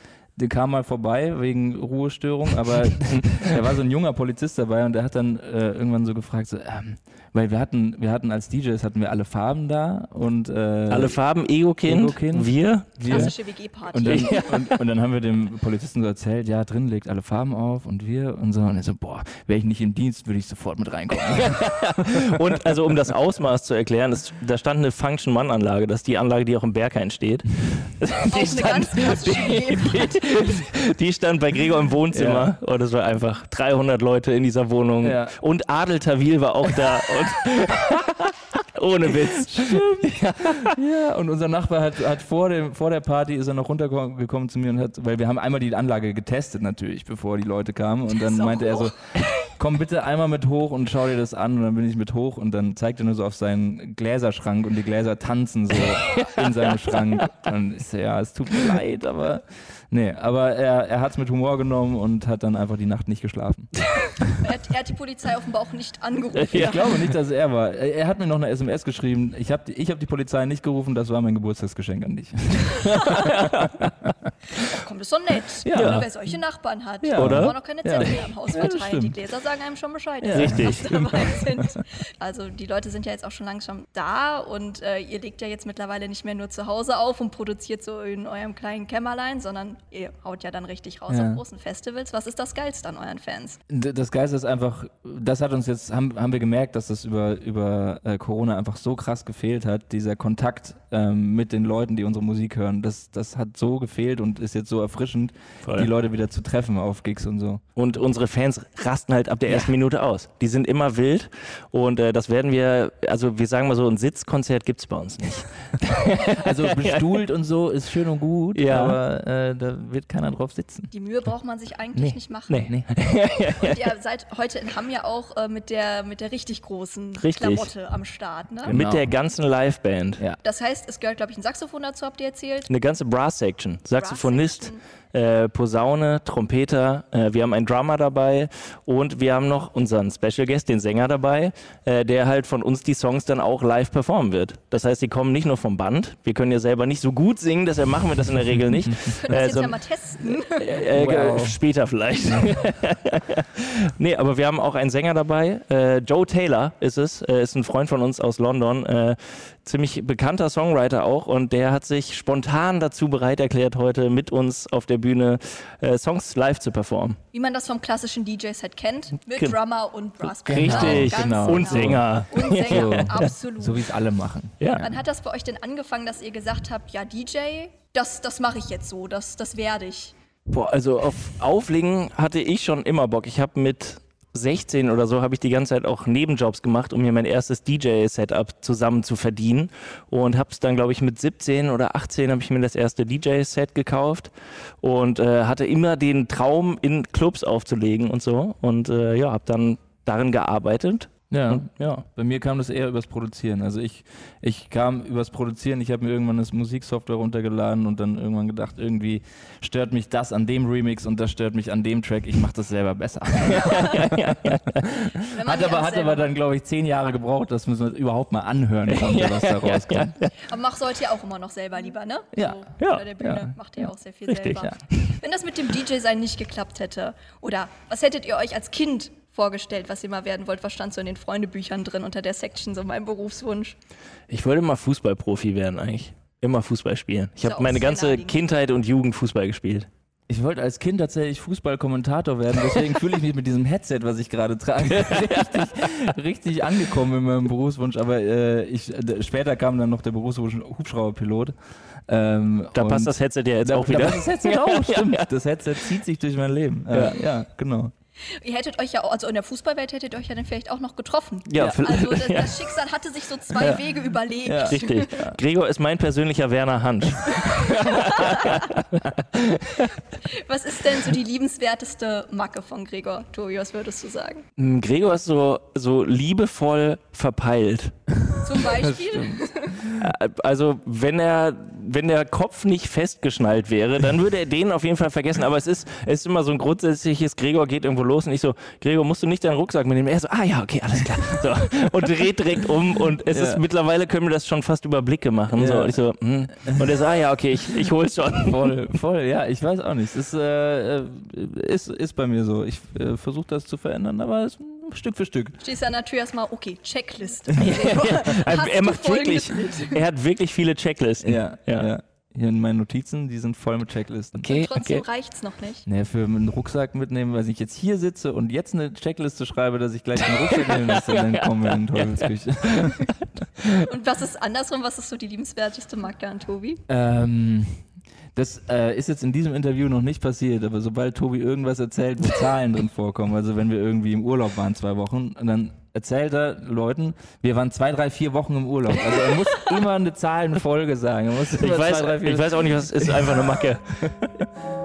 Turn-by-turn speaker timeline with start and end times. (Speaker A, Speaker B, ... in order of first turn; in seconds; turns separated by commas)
Speaker A: 0.4-11.2, Speaker B: 10.9-13.3, Speaker A: 11.8-13.3, Speaker C: 13.1-14.5, Speaker A: 13.9-22.4, Speaker B: 14.0-14.8, Speaker B: 21.3-40.8, Speaker C: 28.2-30.3, Speaker A: 32.1-32.5, Speaker A: 35.0-35.3, Speaker A: 39.3-63.7, Speaker C: 48.2-48.9, Speaker C: 64.0-66.8, Speaker B: 66.3-67.0, Speaker A: 66.5-74.3, Speaker C: 73.0-73.2, Speaker B: 73.1-73.9, Speaker C: 74.5-93.6, Speaker A: 75.6-76.0, Speaker B: 75.7-76.0, Speaker A: 77.0-79.2, Speaker B: 77.1-77.5, Speaker A: 80.2-81.8, Speaker B: 80.3-80.8, Speaker A: 91.1-91.4, Speaker A: 93.7-107.6, Speaker B: 105.6-105.9, Speaker B: 107.8-117.1, Speaker A: 109.5-109.7, Speaker A: 115.8-120.9, Speaker B: 118.5-119.0, Speaker C: 120.9-122.7, Speaker A: 121.9-122.9, Speaker B: 122.5-123.8, Speaker C: 123.6-128.8, Speaker B: 127.2-127.7, Speaker B: 128.7-130.2, Speaker A: 128.7-129.1, Speaker C: 130.4-132.7, Speaker B: 132.7-167.2, Speaker C: 134.0-134.8, Speaker C: 149.0-150.8, Speaker A: 150.9-151.6, Speaker C: 167.3-173.8, Speaker B: 170.4-173.3, Speaker A: 170.4-174.8, Speaker B: 174.6-174.9, Speaker C: 174.8-180.1, Speaker B: 180.5-202.0, Speaker A: 201.3-220.2, Speaker B: 213.5-214.9, Speaker C: 215.3-216.3, Speaker B: 218.9-220.3, Speaker C: 220.4-233.8, Speaker A: 222.3-222.7, Speaker B: 222.8-223.0, Speaker A: 223.2-223.5, Speaker B: 224.3-225.2, Speaker B: 234.3-239.9, Speaker C: 237.4-238.4, Speaker A: 240.3-251.5, Speaker A: 252.1-257.9, Speaker B: 252.7-255.3, Speaker B: 256.9-257.2, Speaker C: 258.4-265.2, Speaker B: 261.5-262.8, Speaker B: 263.5-263.8, Speaker A: 264.4-265.4, Speaker B: 264.6-269.0, Speaker C: 267.3-268.7, Speaker C: 270.1-274.4, Speaker B: 274.6-277.9, Speaker C: 278.4-279.8, Speaker A: 278.6-280.0, Speaker B: 279.8-298.8, Speaker A: 293.3-293.6, Speaker A: 295.5-296.0, Speaker A: 296.6-297.0, Speaker A: 298.4-305.6, Speaker C: 305.6-310.0, Speaker B: 307.6-311.9, Speaker A: 311.2-314.5, Speaker B: 314.4-315.0, Speaker C: 314.5-315.9, Speaker A: 315.9-323.1, Speaker B: 320.3-322.3, Speaker C: 323.6-326.8, Speaker A: 326.9-343.6, Speaker C: 339.1-339.6, Speaker B: 341.5-344.0, Speaker A: 344.2-344.5